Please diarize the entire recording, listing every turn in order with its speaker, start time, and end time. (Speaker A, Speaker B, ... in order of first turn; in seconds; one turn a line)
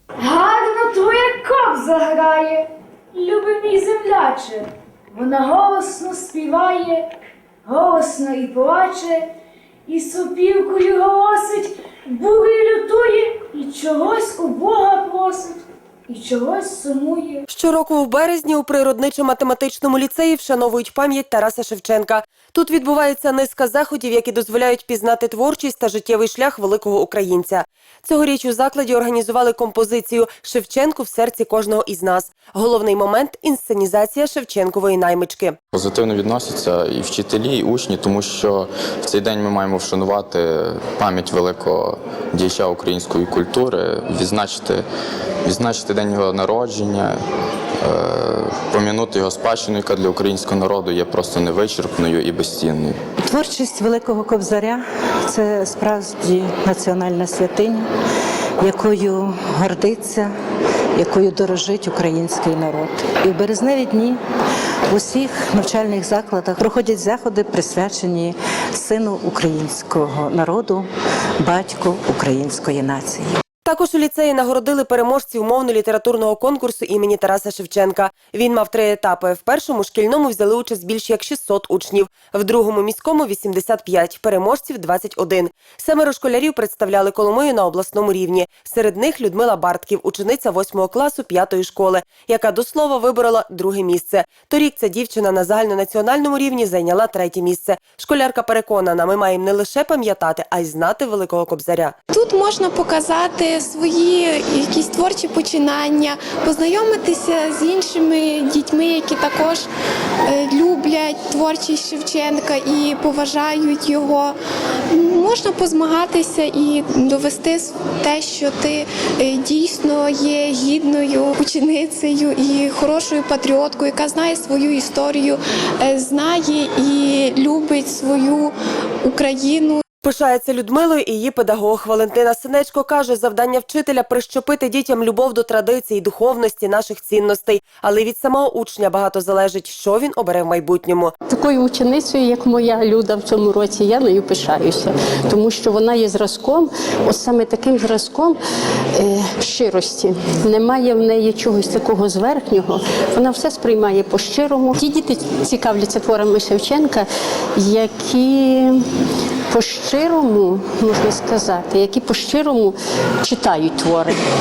Speaker A: 0.2-7.1
Speaker A: 7.7-9.3
Speaker A: 9.9-17.4
Speaker B: 17.5-35.6
Speaker C: 35.7-44.8
Speaker C: 45.5-47.2
Speaker C: 47.8-53.0
Speaker D: 53.2-57.8
Speaker D: 58.6-60.3
Speaker D: 61.0-64.2
Speaker D: 64.9-70.9
Speaker D: 71.4-73.4
Speaker B: 73.7-102.0
Speaker E: 102.1-109.6
Speaker E: 110.4-114.2
Speaker E: 115.0-117.4
Speaker E: 118.2-120.2
Speaker E: 122.0-125.2
Speaker E: 126.1-128.1
Speaker B: 130.0-141.1
Speaker F: 141.3-148.4
Speaker F: 149.0-158.8
Speaker F: 159.5-164.2